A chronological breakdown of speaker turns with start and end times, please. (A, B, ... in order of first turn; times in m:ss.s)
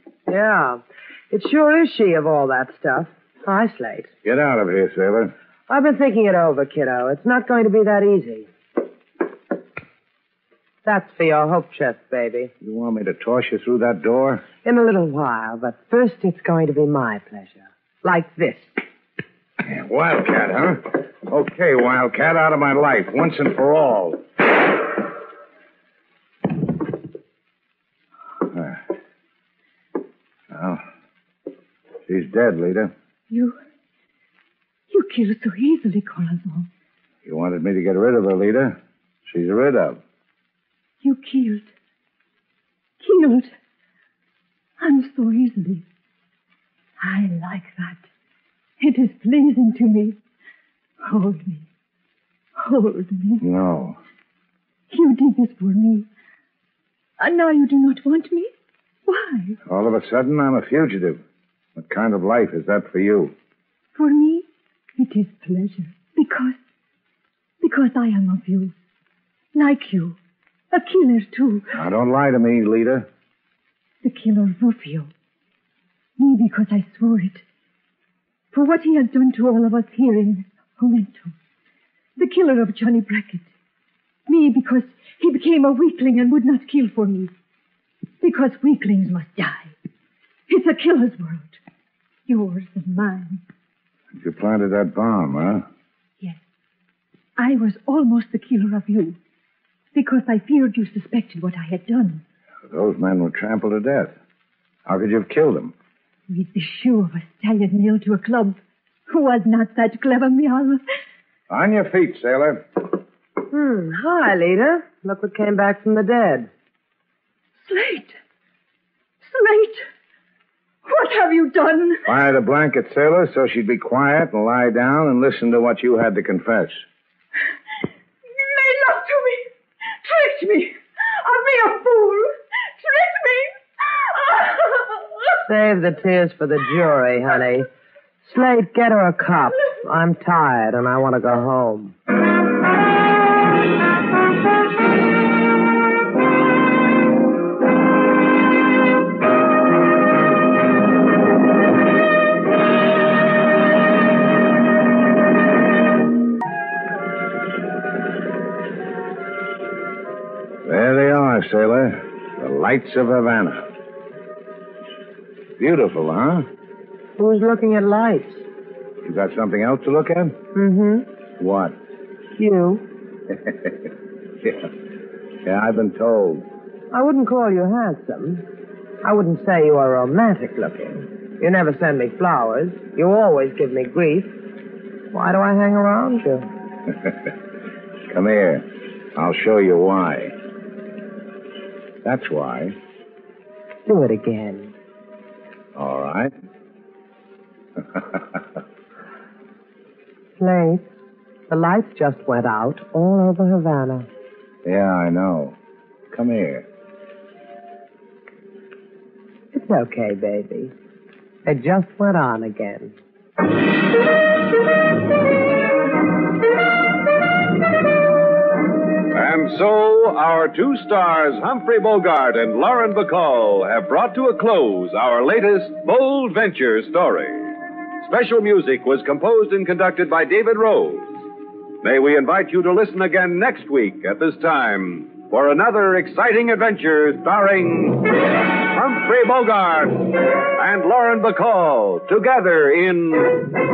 0:00.3-0:04.1 A
0:04.2-0:05.3 B
0:05.7-0:08.5 A
0:10.8-0:12.5 A
0:12.6-0:14.4 B
0:14.6-0:18.8 A
0:19.6-0:24.7 B
0:28.5-0:28.8 B
0:30.5-0:30.8 B
0:32.0-0:32.9 B
0:33.3-0:33.6 C
0:34.9-0:36.7 C
0:37.2-0:40.0 B
0:41.0-0:41.7 C
0:43.0-0:43.5 C
0:44.8-0:45.8 C
0:47.0-0:48.1 C
0:48.8-0:50.2 C
0:51.0-0:51.7 C
0:52.6-0:53.4 C
0:53.4-0:54.0 B
0:54.9-0:56.1 C
0:57.2-0:58.5 C
0:59.0-0:59.6 C
0:59.6-1:01.2 B
1:01.8-1:03.3 B
1:03.9-1:04.4 C
1:05.0-1:06.6 C
1:07.6-1:08.7 C
1:09.5-1:10.2 C
1:10.7-1:11.7 C
1:11.7-1:13.1 B
1:14.0-1:15.1 C
1:16.2-1:17.4 C
1:18.5-1:21.3 C
1:22.2-1:23.5 C
1:24.3-1:27.3 C
1:28.2-1:29.7 C
1:30.5-1:31.6 C
1:32.3-1:33.4 C
1:34.1-1:35.7 B
1:37.4-1:39.2 C
1:39.9-1:42.2 C
1:42.6-1:44.1 B
1:44.8-1:45.7 B
1:46.3-1:50.8 C
1:51.5-1:52.6 B
1:53.5-1:56.5 A
1:57.6-1:58.2 C
1:59.2-1:59.8 C
2:00.8-2:02.0 C
2:02.0-2:06.8 B
2:08.3-2:09.5 C
2:10.0-2:15.4 C
2:15.5-2:17.7 A
2:18.2-2:22.0 A
2:40.6-2:43.7 B
2:45.6-2:46.5 B
2:47.2-2:48.4 A
2:49.0-2:50.4 B
2:50.5-2:51.1 A
2:51.4-2:51.8 B
2:52.4-2:52.8 A
2:53.3-2:53.7 B
2:54.4-2:54.7 B
2:55.4-2:56.4 B
2:56.9-2:58.4 A
2:59.0-3:04.4 A
3:05.1-3:06.5 A
3:08.1-3:10.3 B
3:12.0-3:12.8 B
3:13.8-3:14.7 A
3:15.7-3:16.3 B
3:20.4-3:20.9 A
3:21.5-3:24.1 A
3:24.6-3:25.6 B
3:26.1-3:26.6 B
3:29.5-3:30.7 A
3:31.4-3:32.9 A
3:39.1-3:51.3 D
3:51.8-4:03.6 D